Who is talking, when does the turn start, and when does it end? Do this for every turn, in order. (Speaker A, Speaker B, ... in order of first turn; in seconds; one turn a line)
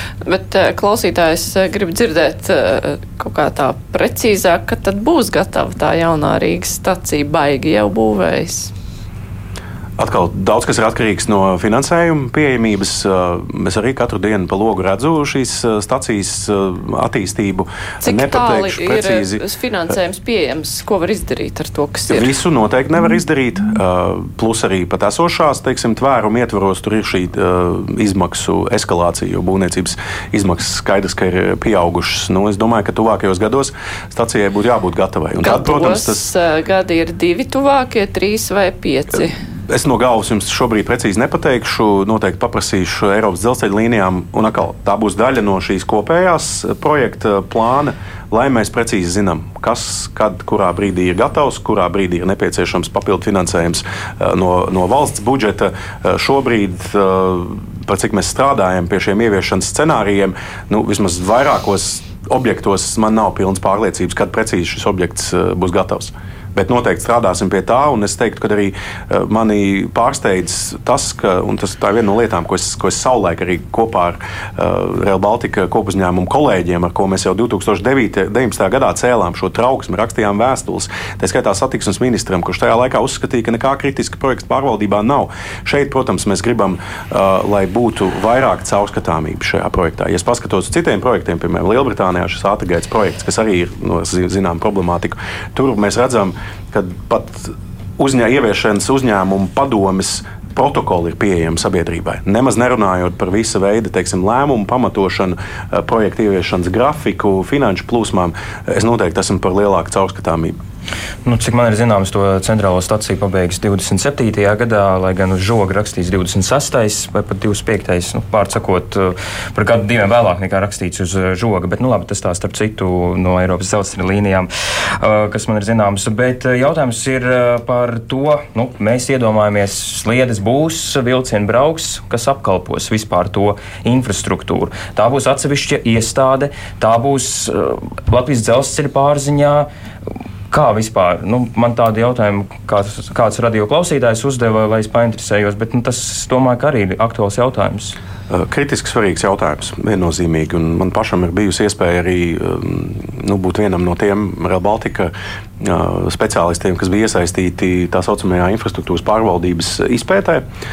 Speaker A: 0.2-8.7
Speaker B: 10.0-19.4
Speaker A: 18.0-22.3
Speaker B: 22.1-36.3
Speaker A: 35.4-39.4
Speaker B: 39.7-110.6
Speaker C: 111.2-139.7
Speaker C: 140.5-147.9
Speaker B: 148.3-160.4